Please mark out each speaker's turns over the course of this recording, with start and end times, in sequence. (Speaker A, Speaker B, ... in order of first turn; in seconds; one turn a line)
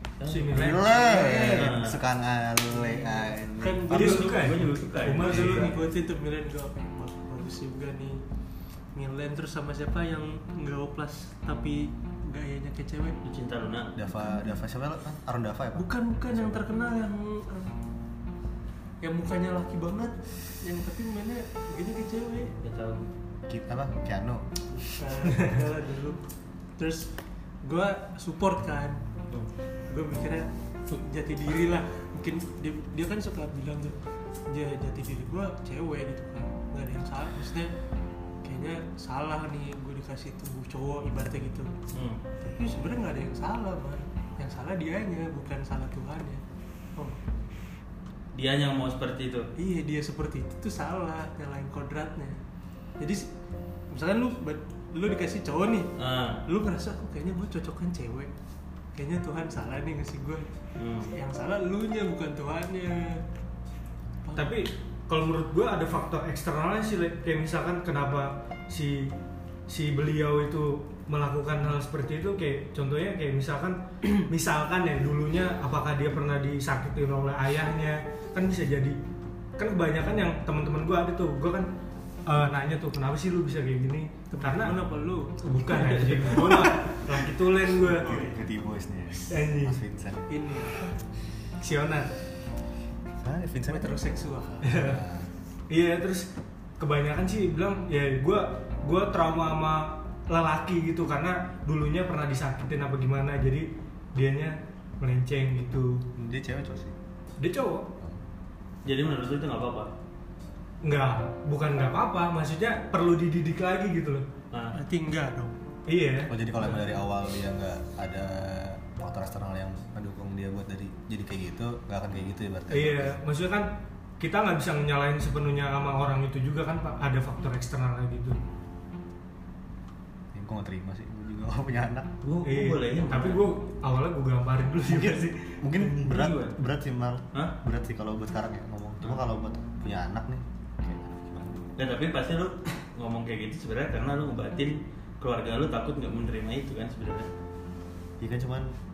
Speaker A: 0.2-0.6
Speaker B: 0.2-1.4
Speaker C: 0.5-4.3
Speaker D: 0.9-1.8
Speaker A: 1.3-2.0
Speaker D: 2.7-4.5
Speaker A: 3.9-5.7
Speaker B: 3.9-5.7
Speaker D: 5.0-8.2
Speaker C: 5.2-5.7
Speaker D: 8.9-13.2
Speaker A: 13.2-13.9
Speaker C: 13.9-16.7
Speaker D: 15.7-17.8
Speaker D: 19.0-22.5
Speaker A: 22.5-23.1
Speaker C: 23.5-24.4
Speaker D: 24.8-26.2
Speaker D: 26.8-27.1
Speaker D: 27.6-29.0
Speaker D: 29.9-37.7
Speaker D: 38.4-41.7
Speaker A: 41.9-42.2
Speaker D: 42.4-46.4
Speaker A: 48.3-49.5
Speaker D: 49.6-52.4
Speaker D: 53.0-53.3
Speaker D: 53.9-55.9
Speaker A: 56.0-56.4
Speaker D: 56.5-58.3
Speaker D: 58.9-60.5
Speaker A: 60.8-61.1
Speaker D: 61.1-63.2
Speaker D: 64.2-64.5
Speaker B: 64.3-69.1
Speaker B: 69.7-79.0
Speaker B: 79.6-81.7
Speaker B: 82.2-84.8
Speaker D: 84.3-86.5
Speaker B: 85.4-88.2
Speaker A: 86.1-86.7
Speaker C: 87.9-90.3
Speaker D: 87.9-88.4
Speaker B: 89.3-89.8
Speaker D: 90.3-90.9
Speaker B: 91.6-92.1
Speaker C: 93.2-95.3
Speaker D: 93.7-94.7
Speaker B: 94.6-95.0
Speaker B: 95.7-106.0
Speaker C: 106.2-107.0
Speaker B: 107.4-107.9
Speaker A: 108.8-109.9
Speaker B: 110.8-114.2
Speaker A: 114.5-114.8
Speaker D: 114.7-115.6
Speaker B: 115.9-116.3
Speaker C: 116.3-123.2
Speaker B: 122.7-123.7
Speaker B: 124.2-128.4
Speaker C: 130.3-132.1
Speaker A: 132.2-133.4
Speaker B: 132.4-135.6
Speaker C: 134.8-141.7
Speaker A: 135.8-136.6
Speaker A: 141.8-147.3
Speaker C: 148.2-148.7